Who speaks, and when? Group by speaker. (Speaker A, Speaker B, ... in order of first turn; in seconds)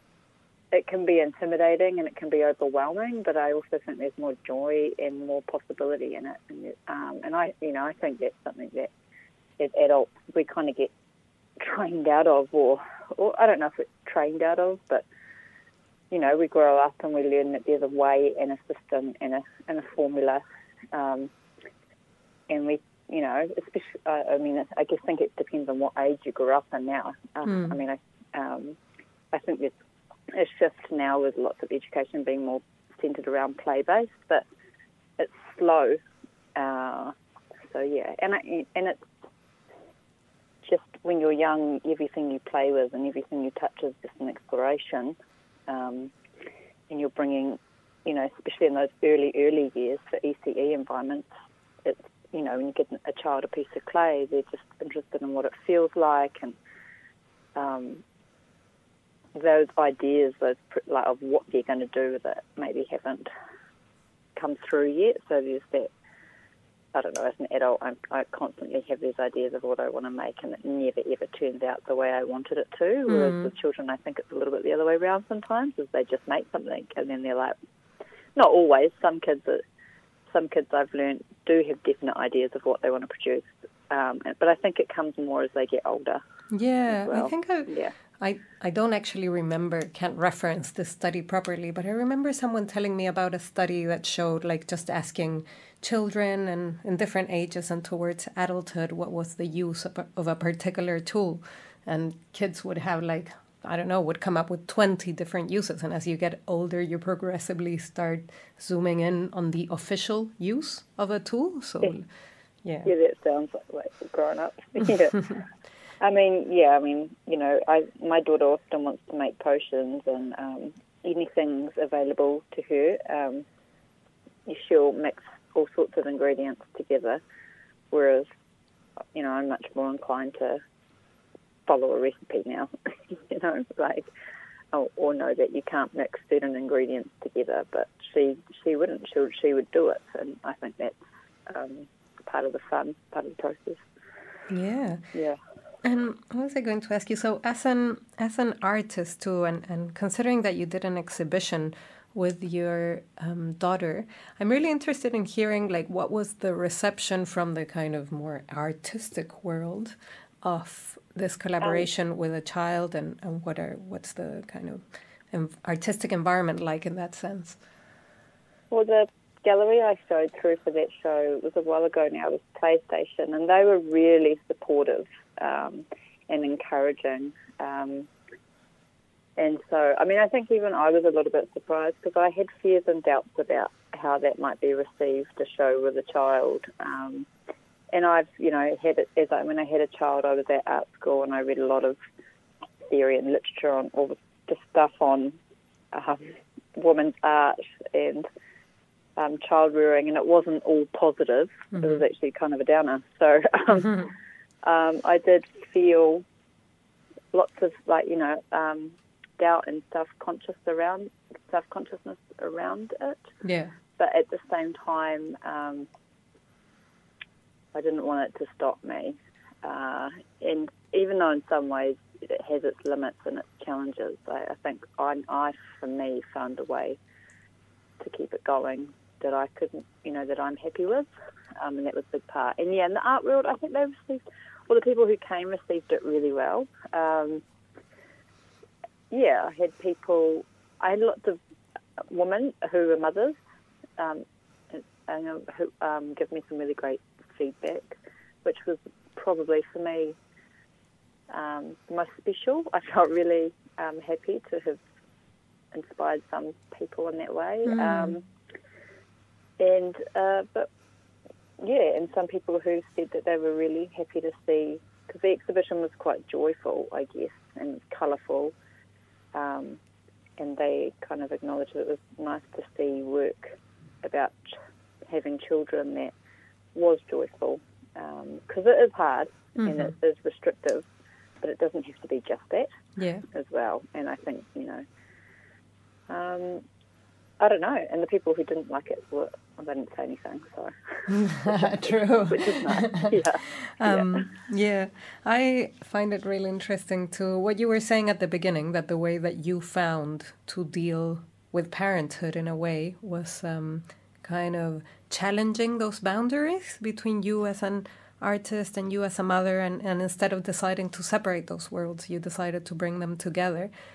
Speaker A: 0.7-8.9, 9.6-10.9, 11.6-15.1, 16.1-21.3, 22.5-28.8, 29.3-29.8, 30.3-34.5, 35.2-36.0, 36.6-37.1, 37.7-39.1, 40.6-45.2, 45.7-46.1, 46.9-51.3, 51.8-56.6, 57.6-58.0, 59.4-63.3, 64.4-65.9, 66.9-77.6, 78.4-79.6, 80.3-86.2, 86.9-87.9, 112.8-115.4, 116.0-123.5, 124.5-127.2, 127.9-128.3, 129.1-130.6, 131.7-134.1, 134.7-143.8, 145.1-145.4, 161.6-161.9, 168.7-178.1, 179.4-187.3, 187.9-192.0, 192.9-195.4, 195.9-198.3, 199.2-204.1, 204.6-206.2, 207.3-213.2, 214.0-215.9, 217.7-227.0, 228.0-237.4, 239.1-241.4, 242.1-243.4, 244.0-247.9, 248.4-250.2, 251.3-254.8, 255.7-258.2, 259.6-260.7, 261.6-268.5, 269.3-269.8, 270.4-274.6, 275.1-276.1, 276.8-280.9, 281.4-282.7, 283.3-284.8, 286.1-286.6, 287.4-294.3
Speaker B: 27.4-27.8, 73.1-73.5, 86.5-112.1, 112.6-112.9, 144.5-145.1, 145.8-167.6, 201.7-202.0, 213.4-213.7, 257.7-258.2, 279.6-279.9, 283.0-283.2, 291.1-313.7